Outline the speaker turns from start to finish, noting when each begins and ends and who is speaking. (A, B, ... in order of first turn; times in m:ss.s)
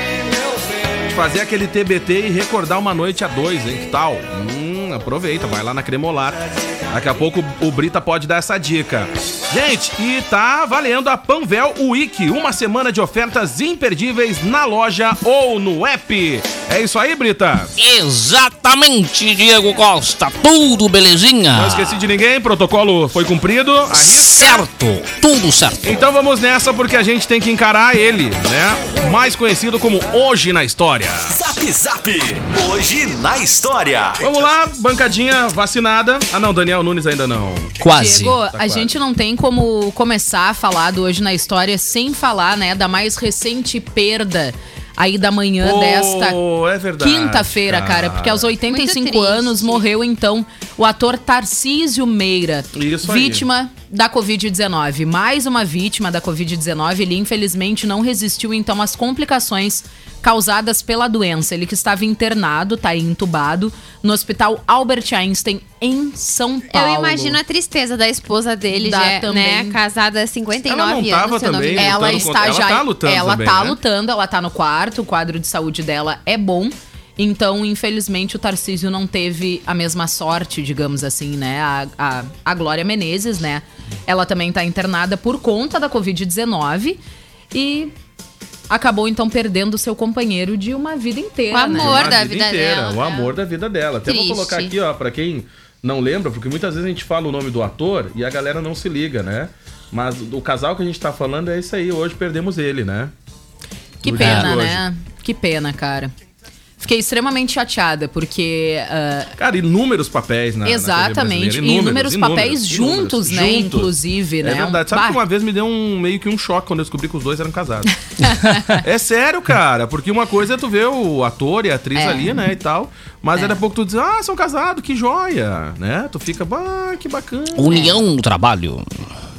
0:01.1-0:17.7 A
0:17.8-0:22.0 B
0:21.5-0:24.7 A
0:23.9-0:26.0 B
0:25.8-0:31.4 A
0:31.3-0:34.3 C
0:34.2-0:37.8 A
0:37.8-0:38.4 B
0:37.8-0:46.4 D
0:38.5-0:38.9 A
0:45.6-0:48.5 A
0:47.0-1:07.4 D
0:48.7-0:49.8 E
0:52.7-0:53.5 A
1:06.7-1:12.3 E
1:08.7-1:09.8 D
1:10.7-1:13.8 A
1:11.8-1:27.0 D
1:27.5-1:27.9 D
1:28.7-1:32.1 D
1:31.5-1:33.3 E
1:31.7-1:43.1 A
1:34.1-1:34.8 E
1:44.0-1:44.8 A
1:44.0-1:46.1 D
1:44.2-1:44.5 B
1:46.8-1:49.3 D
1:49.4-1:57.9 A
1:50.6-1:55.2 D
1:58.2-1:58.8 D
1:58.6-2:07.9 A
2:02.0-2:02.4 D
2:07.5-2:08.9 B
2:07.7-2:08.0 D